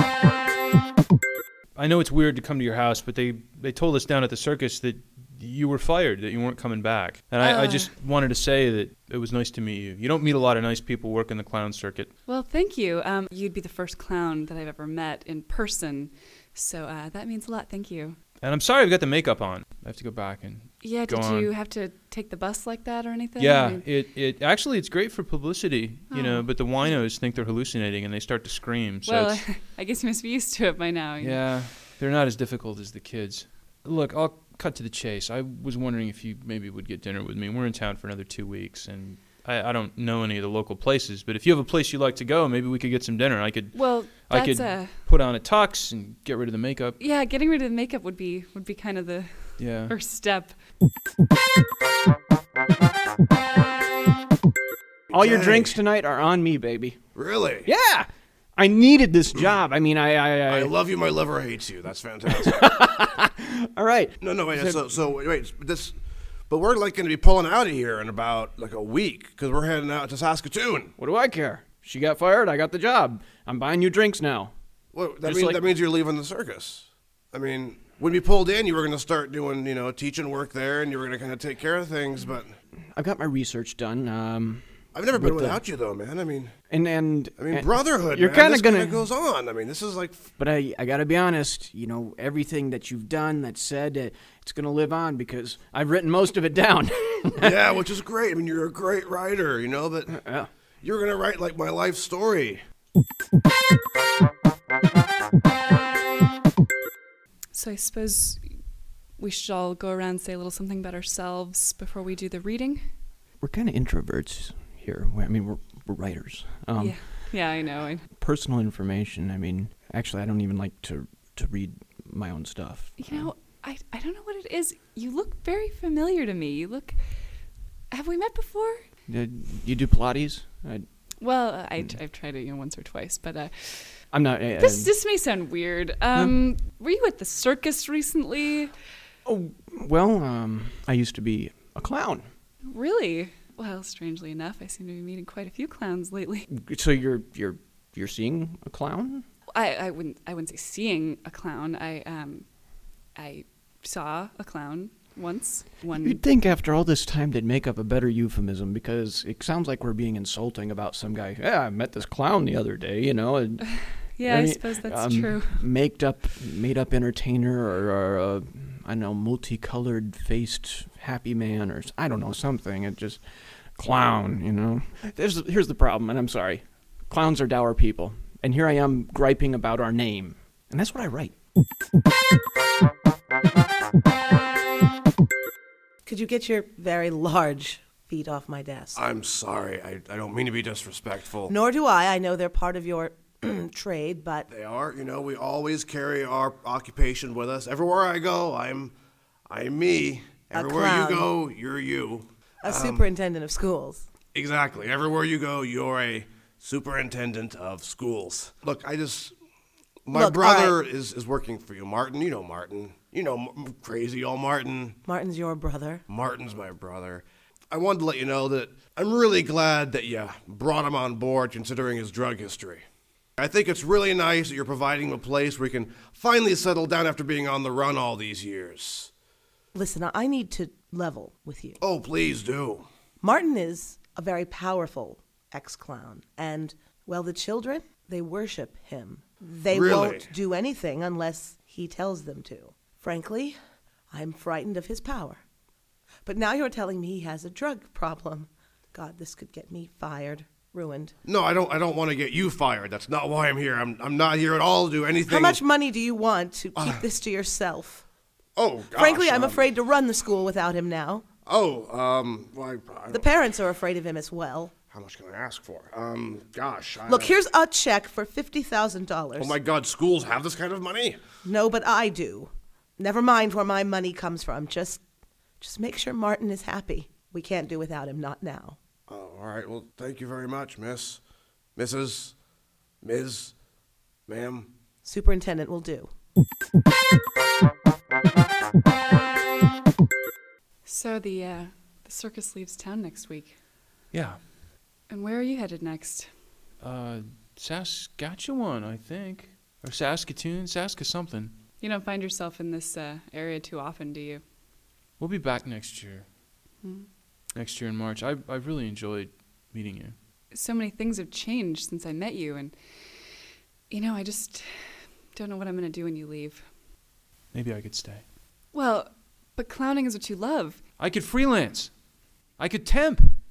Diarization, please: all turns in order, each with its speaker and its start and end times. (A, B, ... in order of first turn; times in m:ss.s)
0:01.8-0:12.1 A
0:07.4-0:07.9 B
0:12.2-0:18.2 B
0:18.4-0:21.5 A
0:20.8-0:23.8 B
0:23.4-0:29.4 A
0:26.1-0:26.7 B
0:29.0-0:31.4 B
0:31.2-0:47.0 A
0:43.7-0:45.0 B
0:47.0-0:50.6 B
0:49.6-0:49.9 A
0:55.1-0:55.8 C
0:55.1-0:57.0 D
0:57.1-0:57.7 C
0:57.6-1:00.7 D
1:00.5-1:03.0 C
1:02.3-1:04.8 D
1:04.2-1:06.0 C
1:06.5-1:10.9 C
1:11.0-1:14.5 D
1:14.9-1:22.5 C
1:15.2-1:15.7 D
1:22.9-1:25.6 D
1:24.9-1:26.5 C
1:26.7-1:29.1 D
1:27.4-1:30.3 C
1:30.4-1:37.6 D
1:37.4-1:40.2 C
1:40.1-1:40.5 D
1:40.8-1:42.6 C
1:47.5-1:48.5 B
1:49.2-1:52.8 B
1:53.4-1:57.3 D
1:56.8-1:58.0 B
1:58.2-2:03.3 D
2:03.0-2:07.0 B
2:07.9-2:08.8 B
2:09.1-2:10.8 D
2:11.2-2:14.0 B
2:14.1-2:14.9 D
2:14.6-2:18.7 B
2:16.1-2:16.4 D
2:19.2-2:22.3 D
2:22.6-2:26.4 B
2:26.5-2:29.2 D
2:29.5-2:32.4 B
2:33.1-2:36.2 B
2:36.0-3:01.3 D
2:44.2-2:45.6 B
3:06.0-3:09.0 E
3:09.0-3:11.5 C
3:11.5-3:14.5 E
3:14.5-3:18.9 C
3:19.5-3:23.1 C
3:20.5-3:21.3 E
3:22.6-3:24.0 E
3:24.3-3:29.3 C
3:30.1-3:35.0 C
3:30.1-3:30.8 E
3:35.0-3:36.0 E
3:36.1-3:42.8 C
3:43.4-3:49.1 C
3:49.7-3:51.8 E
3:51.8-3:52.8 C
3:53.2-4:03.6 E
3:59.7-4:00.3 C
4:04.1-4:05.4 E
4:06.2-4:11.1 E
4:11.2-4:15.6 C
4:15.2-4:18.0 E
4:16.8-4:17.0 C
4:18.6-4:19.7 C
4:18.9-4:21.2 E
4:21.4-4:23.2 C
4:23.1-4:24.7 E
4:24.9-4:27.4 C
4:27.0-4:29.6 E
4:29.4-4:31.2 C
4:31.4-4:35.0 E
4:35.6-4:38.8 E
4:39.1-4:41.2 C
4:41.8-4:42.3 C
4:43.0-4:43.5 C
4:44.3-4:44.7 C
4:45.0-4:46.1 E
4:50.8-4:53.6 B
4:54.1-4:54.4 A
4:55.1-4:56.3 B
4:56.8-5:01.5 A
5:01.8-5:04.4 B
5:05.2-5:06.2 A
5:07.5-5:10.1 A
5:10.5-5:12.7 B
5:13.9-5:14.7 B
5:15.3-5:16.6 B
5:17.5-5:18.2 A
5:18.7-5:20.8 B
5:21.0-5:21.9 A
5:22.6-5:23.4 A